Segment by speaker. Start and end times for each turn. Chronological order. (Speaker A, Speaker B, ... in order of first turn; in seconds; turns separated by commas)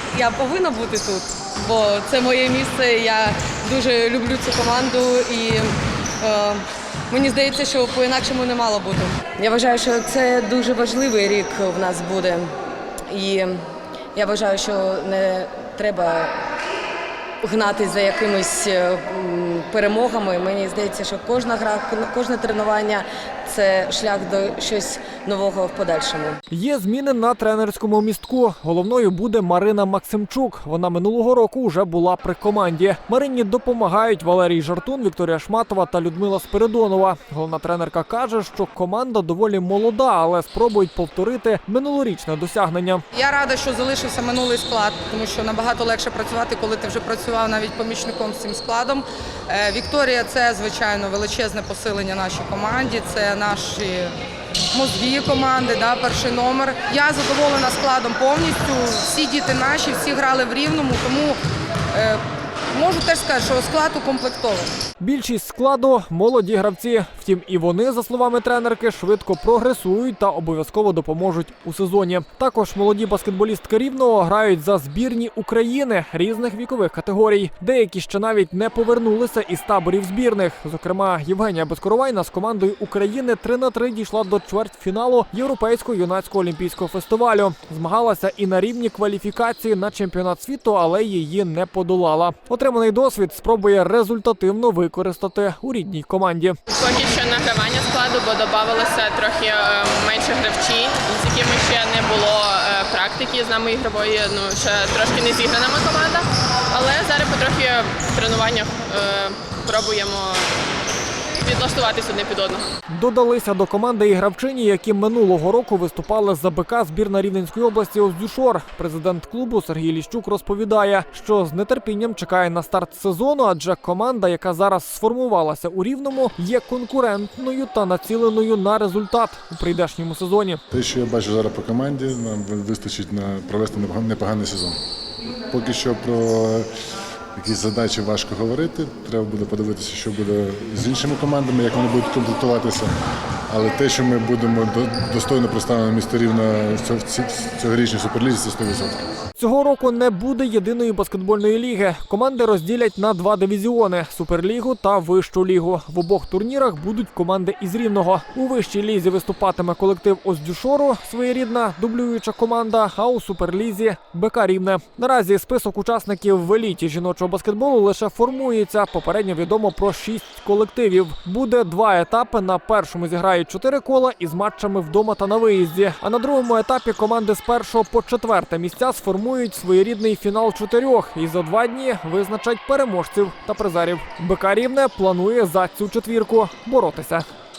Speaker A: 0.1-5.7, Speaker A: 6.2-12.5, Speaker A: 13.1-13.6, Speaker A: 14.1-16.4, Speaker A: 17.4-26.4, Speaker B: 26.5-43.0, Speaker C: 43.1-54.1, Speaker C: 54.7-61.4, Speaker C: 61.9-62.2, Speaker C: 62.7-64.7, Speaker B: 65.0-96.6, Speaker D: 96.7-110.5, Speaker D: 111.4-112.7, Speaker B: 112.9-130.6, Speaker E: 130.7-134.8, Speaker E: 135.5-136.7, Speaker E: 137.3-142.9, Speaker E: 143.5-149.0, Speaker B: 149.4-187.2